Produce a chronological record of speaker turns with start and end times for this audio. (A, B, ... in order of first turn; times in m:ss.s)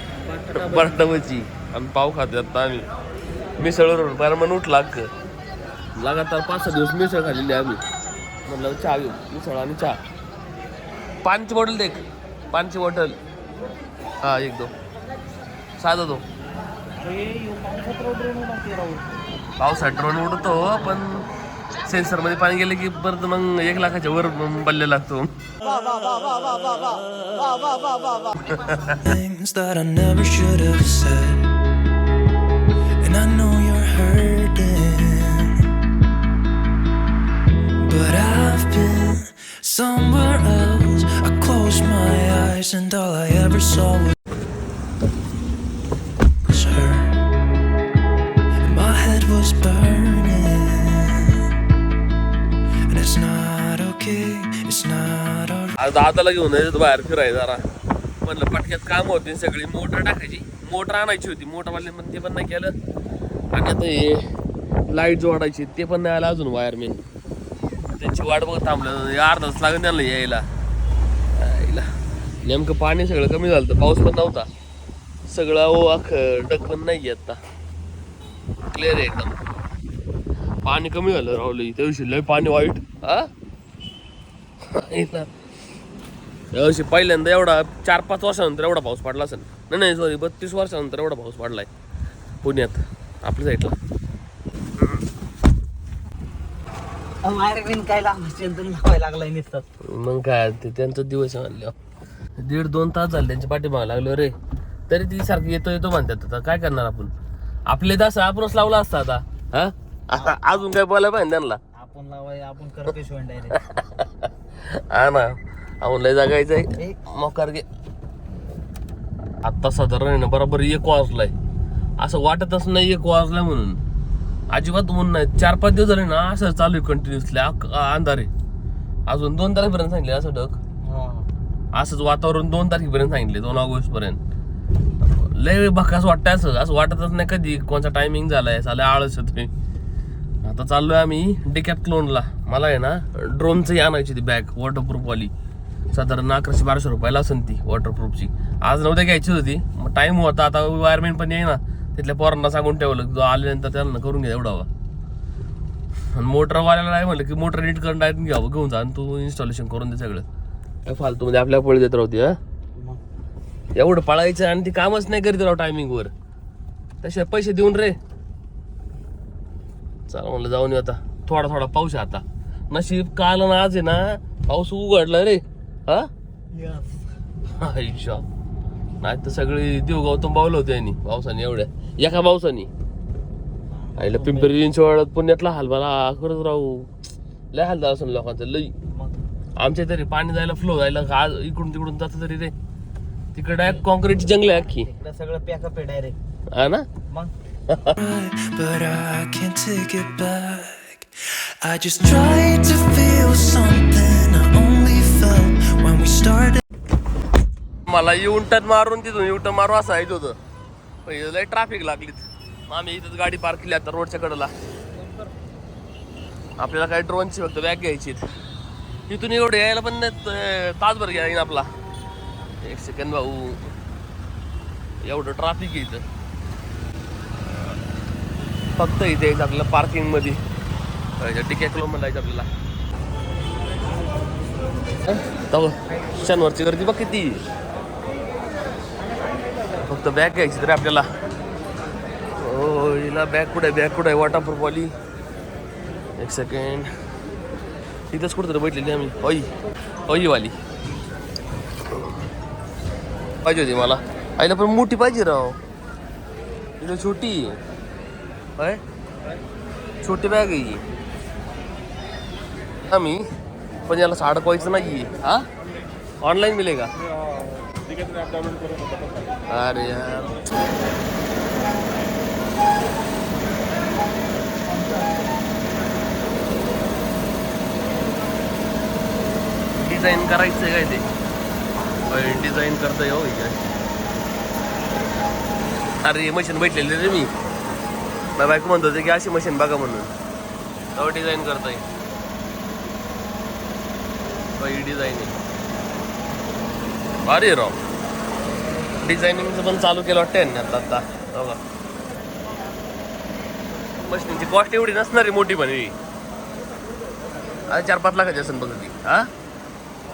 0:00.4-0:02.9 A
0:03.6-0:05.1 A
0:06.0-0:07.8 A
0:08.5-0:10.0 A
0:11.2-0:13.2 A
0:14.2-0:14.7 A
0:15.8-0:16.2 A
0:17.0-0:19.0 B
0:19.6-0:21.3 A
0:21.8-0:25.3 A
0:25.7-0:28.4 B
0:28.4-0:29.0 A
0:28.9-0:31.5 C
0:33.0-0:35.7 C
0:37.8-0:44.2 C
0:46.4-0:47.2 C
0:48.6-0:51.5 C
0:52.9-0:55.8 C
0:55.8-0:57.6 A
0:58.2-1:02.7 A
1:03.5-1:04.3 A
1:04.9-1:07.0 A
1:07.8-1:10.4 A
1:11.3-1:11.9 A
1:12.4-1:14.5 A
1:15.2-1:17.4 A
1:18.7-1:19.4 A
1:20.6-1:23.3 A
1:24.6-1:25.3 A
1:26.5-1:31.7 A
1:32.4-1:33.8 A
1:37.2-1:39.6 B
1:39.8-1:41.7 A
1:42.4-1:44.3 A
1:44.9-1:47.1 A
1:47.7-1:51.6 A
1:50.1-1:50.6 B
1:51.7-1:53.6 B
1:53.5-1:57.6 A
1:59.4-2:01.3 A
2:02.0-2:03.8 A
2:04.5-2:08.3 A
2:09.1-2:10.6 A
2:10.8-2:11.3 B
2:11.7-2:14.2 A
2:15.0-2:19.5 A
2:20.4-2:25.3 A
2:25.9-2:34.7 A
2:36.1-2:40.2 A
2:40.8-2:42.4 A
2:43.8-2:46.1 A
2:47.0-2:48.0 A
2:50.1-2:56.1 A
2:56.5-2:56.9 B
2:57.6-2:58.2 A
2:59.0-3:02.7 A
3:03.8-3:04.6 B
3:04.0-3:06.9 A
3:07.5-3:08.7 A
3:08.9-3:09.2 B
3:09.6-3:12.5 A
3:13.3-3:14.9 A
3:13.6-3:16.2 B
3:16.5-3:16.9 A
3:17.7-3:18.0 A
3:18.0-3:26.6 C
3:27.9-3:30.4 A
3:31.0-3:34.5 A
3:36.6-3:38.2 A
3:39.1-3:41.7 A
3:42.6-3:43.7 A
3:45.0-3:46.0 A
3:48.8-3:50.4 A
3:51.2-3:52.5 A
3:55.0-3:57.4 A
3:59.8-4:01.1 A
4:02.4-4:04.9 A
4:06.2-4:06.9 A
4:08.1-4:09.5 A
4:10.1-4:10.6 A
4:13.4-4:15.6 A
4:16.8-4:17.6 A
4:18.6-4:18.8 A
4:20.0-4:20.8 A
4:22.8-4:23.3 A
4:23.8-4:25.4 A
4:26.2-4:26.9 A
4:29.5-4:30.4 A
4:34.7-4:35.2 B
4:39.8-4:41.0 A
4:42.1-4:43.6 A
4:46.0-4:47.3 A
4:48.4-4:50.1 A
4:51.0-4:51.8 A
4:54.6-4:55.4 A
4:57.2-4:57.8 A
4:59.0-5:01.6 A
5:03.9-5:05.9 A
5:07.7-5:09.3 A